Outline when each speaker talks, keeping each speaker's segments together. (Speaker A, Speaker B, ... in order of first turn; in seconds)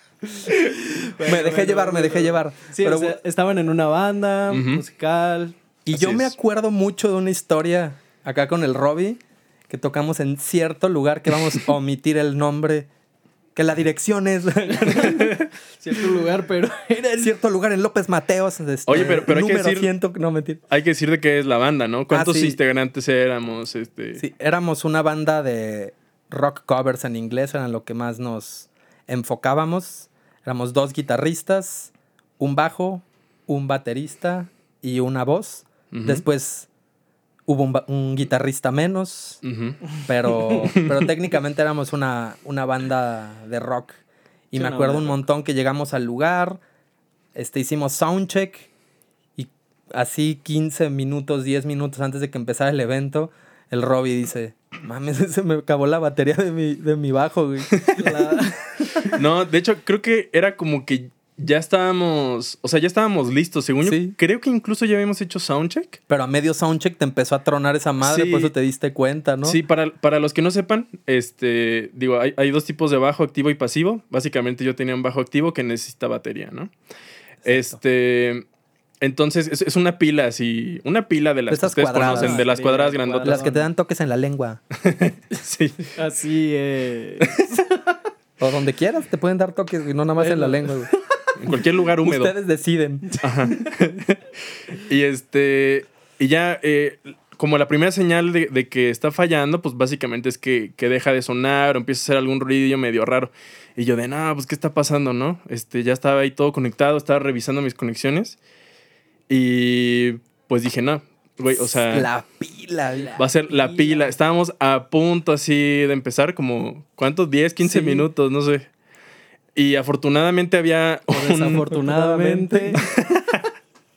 Speaker A: 0.4-5.6, 14.8-17.3, 44.5-45.2, 57.9-59.1, 82.0-83.7, 85.9-87.9, 90.2-90.7, 112.9-114.1, 121.1-122.8
Speaker B: 1.2-3.2, 5.8-12.9, 13.5-15.4, 17.2-20.6, 22.1-22.6, 24.2-36.7, 37.5-39.4, 40.0-44.0, 44.5-46.6, 47.3-48.7, 49.4-57.7, 63.8-64.1, 66.1-69.6, 77.4-77.8, 81.5-82.4, 83.2-84.6, 88.4-90.9, 92.0-93.1, 111.5-113.1, 117.6-118.1, 121.7-122.8
Speaker C: 4.5-4.8, 5.9-6.3, 18.9-19.9, 20.7-24.2, 35.9-36.2, 39.4-39.9, 40.7-41.1, 57.7-58.0, 59.0-66.0, 68.0-68.5, 69.4-76.7, 77.4-78.4, 79.0-83.4, 84.8-85.9, 91.3-92.3, 93.2-108.4, 109.3-112.1, 113.2-118.7, 119.5-121.8, 122.8-123.5